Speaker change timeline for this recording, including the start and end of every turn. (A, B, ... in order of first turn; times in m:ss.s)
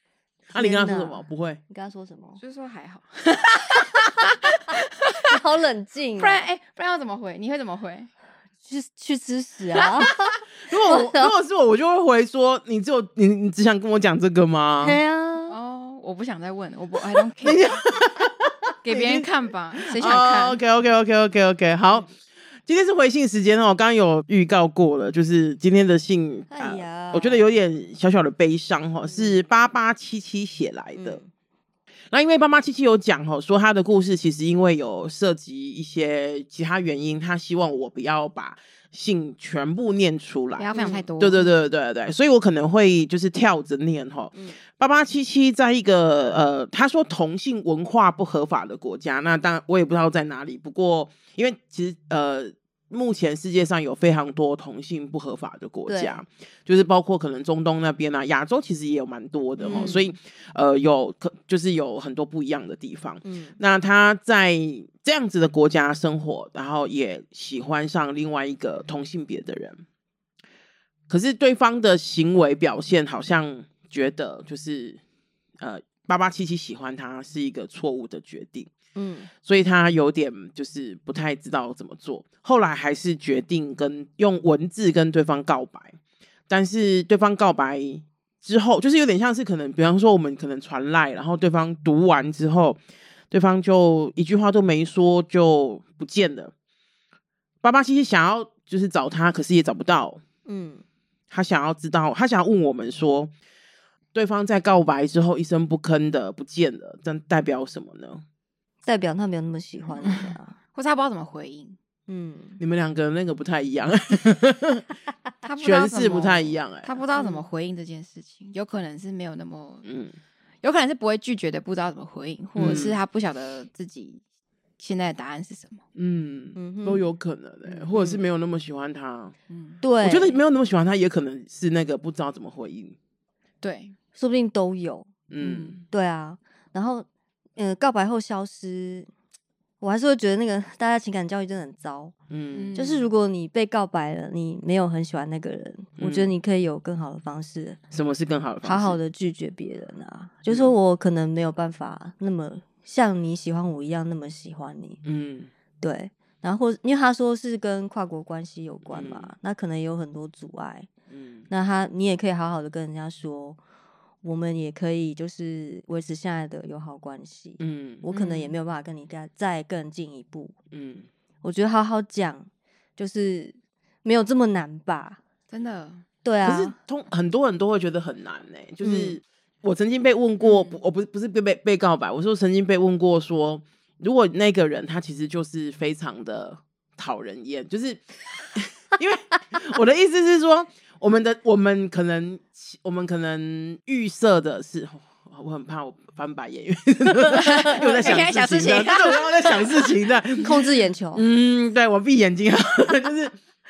0:00.5-0:01.6 A
0:00.5-0:02.4 B
0:02.4-0:05.1 C
0:05.3-0:06.4 B
0:06.2-0:08.1 C
0:08.7-0:10.1 B
0:09.8-0:10.1 C
0:10.7-0:15.0 A
0:10.9-0:11.3 B
0:14.8-0:15.6 B
0:15.5-0:17.8 C
0:17.4-0:19.3 A
0:18.8-0:20.6 C
0:19.8-0:22.1 A
0:22.7-0:31.2 A
0:26.5-0:27.6 B
0:31.0-0:31.3 B
0:32.1-1:09.8 A
0:40.6-0:41.5 C
0:40.8-0:41.0 B
0:55.9-0:56.2 B
0:59.6-1:00.1 C
1:03.2-1:03.6 B
1:11.1-1:15.0 A
1:15.6-1:18.7 A
1:19.0-1:19.3 B
1:19.4-1:26.0 A
1:26.5-1:36.5 A
1:37.6-1:40.2 A
1:40.5-1:40.8 B
1:41.3-1:43.3 A
1:44.1-1:48.2 A
1:48.8-1:50.6 B
1:50.0-1:51.8 C
1:52.1-1:52.6 B
1:52.6-1:54.8 A
1:55.4-1:59.8 C
1:55.6-1:57.0 A
1:57.2-1:57.5 B
1:59.8-2:00.2 A
2:00.6-2:04.2 C
2:02.6-2:03.0 A
2:04.8-2:05.8 C
2:06.0-2:09.3 A
2:06.6-2:07.1 B
2:07.6-2:08.2 C
2:09.5-2:09.8 C
2:09.8-2:10.4 B
2:10.0-2:13.0 A
2:13.6-2:14.0 C
2:14.2-2:15.1 B
2:15.3-2:15.8 A
2:15.4-2:15.8 C
2:15.9-2:17.1 B
2:17.6-2:19.1 B
2:19.8-2:22.1 B
2:22.3-2:22.7 A
2:22.5-2:23.1 C
2:22.8-2:27.8 B
2:26.0-2:26.3 A
2:27.9-2:29.0 A
2:28.6-2:35.0 B
2:30.5-2:30.8 A
2:35.0-2:35.5 A
2:35.8-2:40.9 B
2:38.9-2:39.3 A
2:41.1-2:41.5 A
2:41.5-2:43.6 B
2:44.2-2:50.5 B
2:47.6-2:48.2 A
2:48.1-2:48.5 C
2:50.7-2:51.1 A
2:51.4-2:52.5 B
2:53.0-2:55.2 B
2:55.5-2:56.0 C
2:56.2-2:56.8 B
2:56.4-3:23.4 A
2:58.8-2:59.2 B
3:00.4-3:00.8 C
3:17.4-3:19.8 C
3:17.8-3:18.1 B
3:20.4-3:21.3 B